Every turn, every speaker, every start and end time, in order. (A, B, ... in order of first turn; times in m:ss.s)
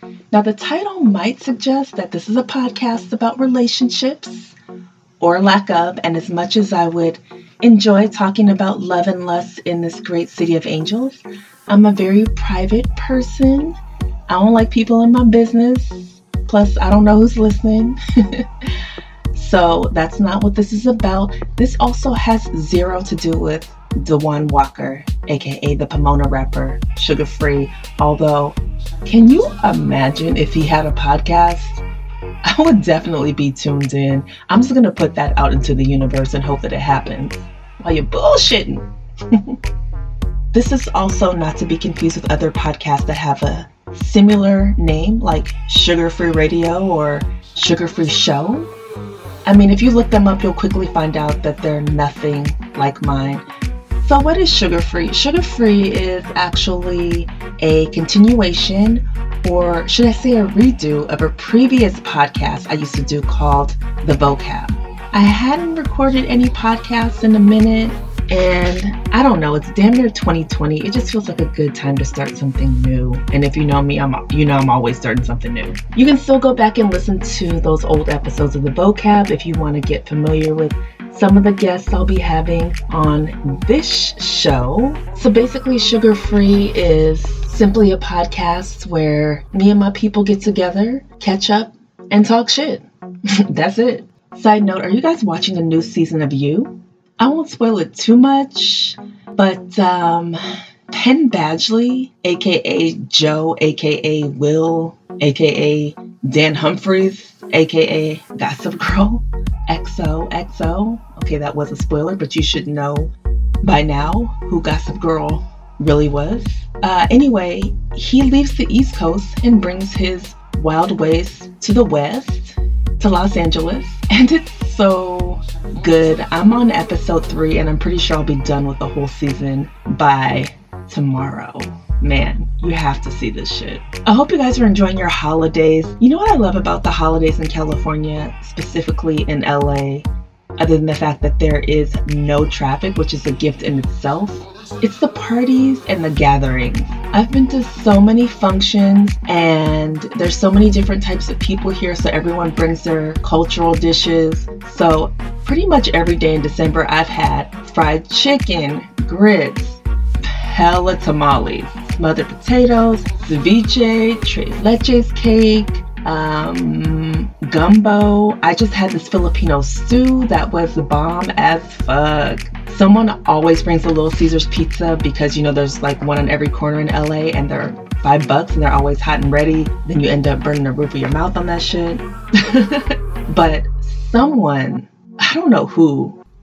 0:00.3-0:04.5 A
0:05.2-0:13.8 A
0:14.3-0:18.5 A
0:19.3-0:31.8 A
0:32.4-0:39.6 A
0:40.5-0:48.7 A
0:49.4-0:53.4 A
0:54.0-1:32.8 A
1:33.5-1:53.1 A
1:53.6-3:06.2 A